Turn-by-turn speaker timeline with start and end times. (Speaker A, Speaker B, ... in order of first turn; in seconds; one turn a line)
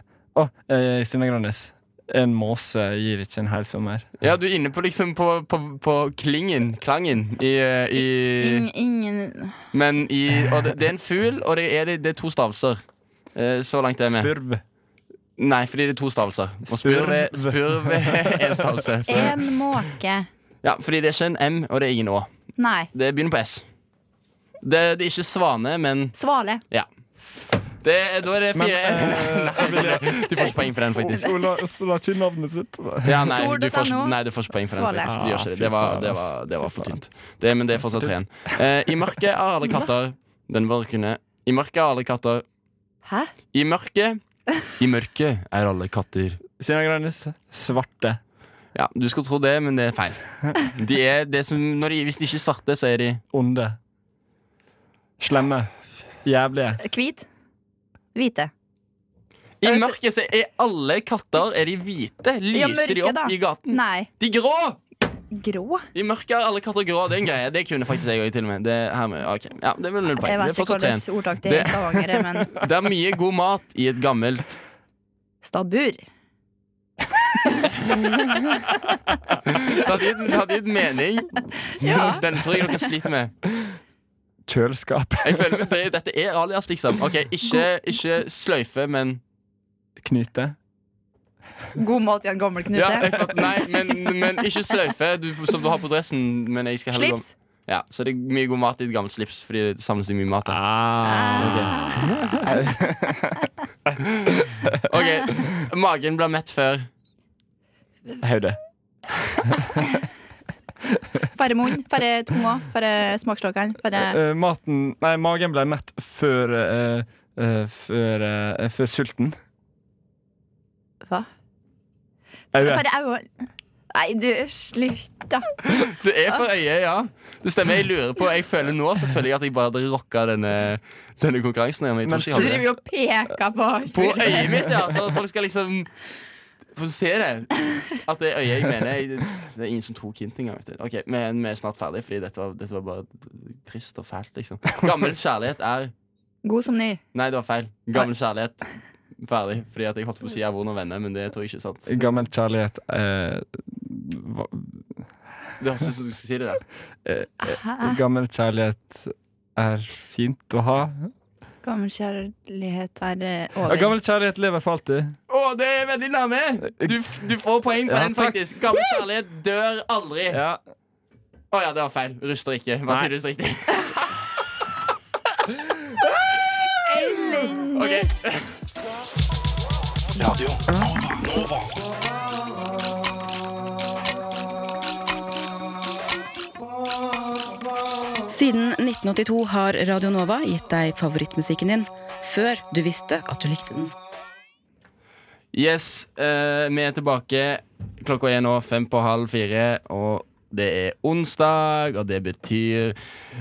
Speaker A: 0.3-4.1
Speaker B: 4.2-8.7
Speaker C: 8.4-9.6
Speaker B: 9.7-12.8
Speaker B: 13.3-14.3
Speaker A: 14.0-14.6
Speaker B: 15.4-19.4
Speaker A: 16.7-19.3
Speaker C: 19.1-20.3
Speaker B: 20.6-22.3
Speaker C: 22.6-22.9
Speaker B: 22.9-23.6
Speaker B: 24.6-26.1
Speaker C: 26.1-26.6
Speaker B: 27.8-31.3
Speaker A: 28.6-33.4
Speaker B: 33.0-42.4
Speaker C: 33.3-35.1
Speaker A: 35.0-36.9
Speaker C: 43.1-43.3
Speaker B: 43.5-46.4
Speaker A: 46.6-48.2
Speaker B: 48.8-53.2
Speaker A: 53.3-53.8
Speaker A: 55.2-55.7
Speaker A: 56.2-56.8
Speaker C: 56.8-57.3
Speaker C: 58.1-58.5
Speaker B: 59.6-64.8
Speaker C: 59.6-60.0
Speaker C: 62.5-64.1
Speaker C: 65.3-65.8
Speaker B: 66.0-74.6
Speaker C: 70.2-72.5
Speaker C: 75.4-76.0
Speaker B: 77.9-78.5
Speaker B: 79.5-83.3
Speaker C: 81.8-82.2
Speaker A: 84.5-85.7
Speaker B: 85.2-89.2
Speaker A: 90.0-90.6
Speaker C: 91.8-93.2
Speaker B: 92.7-100.8
Speaker C: 96.9-97.3
Speaker A: 100.5-104.8
Speaker C: 101.1-102.0
Speaker B: 101.4-102.7
Speaker B: 104.0-106.9
Speaker A: 108.2-108.6
Speaker C: 111.3-114.2
Speaker A: 113.9-119.4
Speaker A: 122.5-122.8
Speaker C: 122.6-123.3
Speaker C: 123.9-125.5
Speaker B: 125.7-132.7
Speaker A: 132.1-132.7
Speaker C: 132.3-134.7
Speaker B: 133.9-136.1
Speaker B: 136.7-145.9
Speaker C: 146.4-147.0
Speaker B: 147.1-148.6
Speaker B: 149.2-151.9
Speaker A: 151.9-155.0
Speaker B: 155.6-156.6
Speaker A: 157.1-161.1
Speaker C: 157.4-158.0
Speaker C: 161.6-163.9
Speaker A: 163.7-165.2
Speaker B: 165.3-170.4
Speaker A: 166.7-167.0
Speaker A: 167.8-168.4
Speaker A: 170.3-170.6
Speaker B: 171.5-174.1
Speaker C: 176.9-178.0
Speaker B: 177.7-178.5
Speaker A: 180.2-181.5
Speaker D: 188.3-193.9
Speaker B: 195.5-203.0